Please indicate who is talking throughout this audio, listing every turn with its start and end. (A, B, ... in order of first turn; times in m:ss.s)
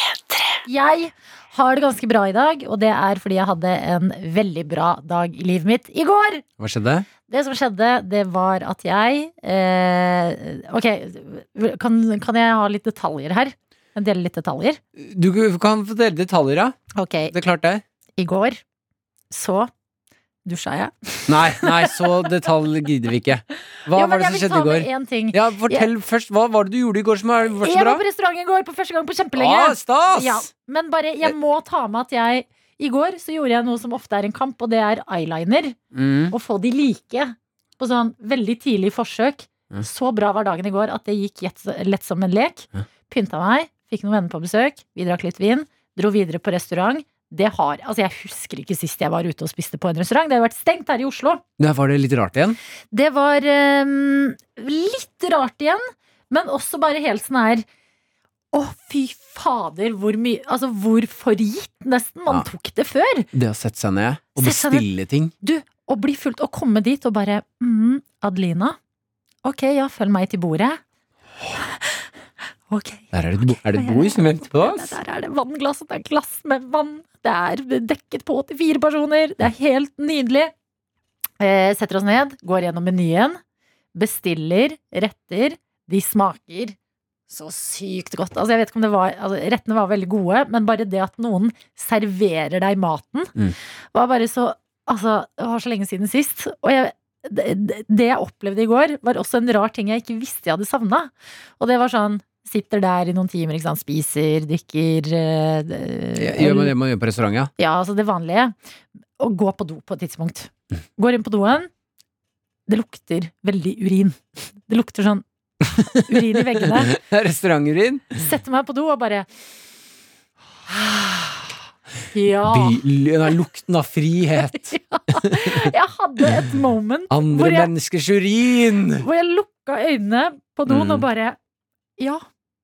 0:00.7-0:06.4 A
0:06.6-0:07.1 B
0:07.3-0:14.8 A
0:15.0-0:16.8 B
0:17.0-0:17.3 A
0:17.3-0:17.8 B
0:18.2-0:18.6 A
0:19.3-0:19.7 A
0:20.5-0:22.1 A
0:21.3-0:28.0 B
0:23.9-0:25.9 A
0:27.6-0:35.8 A
0:29.4-0:30.5 B
0:35.9-0:36.3 B
0:36.3-0:51.4 A
0:51.6-0:52.6 B
0:52.9-0:57.6 A
0:58.5-1:03.3 A
1:03.3-1:05.3 B
1:04.4-1:04.9 A
1:05.4-1:08.8 A
1:09.4-1:10.8 A
1:12.7-1:20.5 A
1:13.1-1:15.0 B
1:21.4-1:23.4 A
1:23.9-1:26.8 A
1:27.3-1:33.4 A
1:33.9-1:46.7 A
1:46.2-1:47.5 B
1:47.6-1:48.5 A
1:49.2-1:51.7 A
1:52.7-1:55.2 A
1:55.8-1:58.2 B
1:56.1-1:57.0 A
1:58.2-1:59.3 A
2:00.7-2:01.6 A
2:02.1-2:02.8 A
2:02.5-2:05.7 B
2:04.7-2:07.7 A
2:07.1-2:09.1 B
2:09.0-2:11.4 A
2:10.7-2:11.1 B
2:12.0-2:12.2 A